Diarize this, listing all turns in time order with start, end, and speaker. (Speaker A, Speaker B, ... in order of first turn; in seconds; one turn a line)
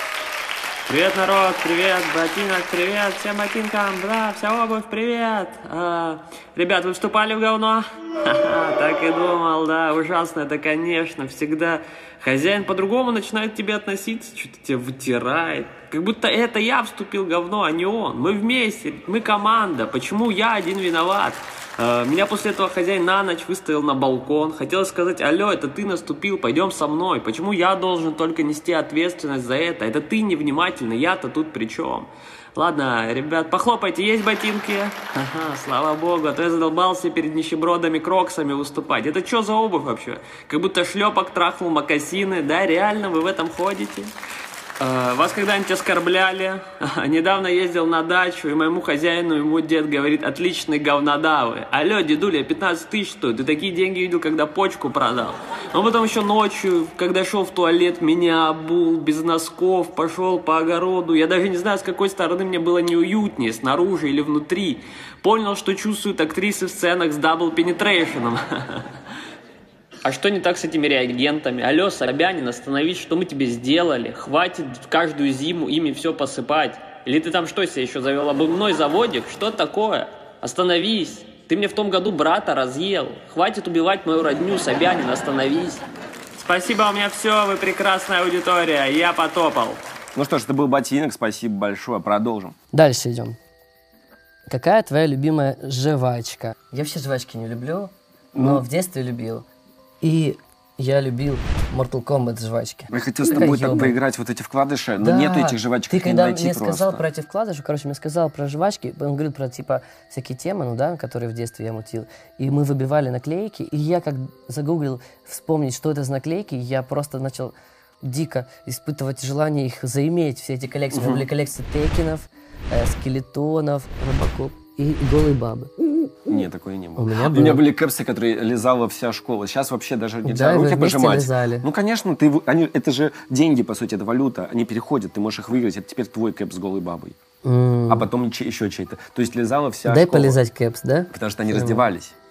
Speaker A: 0.9-44.1
Speaker A: 44.8-68.9
Speaker A: 70.0-85.8
Speaker A: 86.4-89.8
Speaker B: 90.2-92.5
Speaker C: 92.7-93.4
Speaker C: 94.5-99.5
Speaker B: 98.3-98.6
Speaker C: 100.0-104.0
Speaker B: 102.9-107.0
Speaker C: 105.0-125.7
Speaker B: 120.9-121.2
Speaker B: 126.3-137.2
Speaker C: 127.0-127.6
Speaker C: 130.2-131.7
Speaker C: 137.4-138.1
Speaker B: 137.9-140.4
Speaker C: 139.8-141.8
Speaker B: 141.1-142.2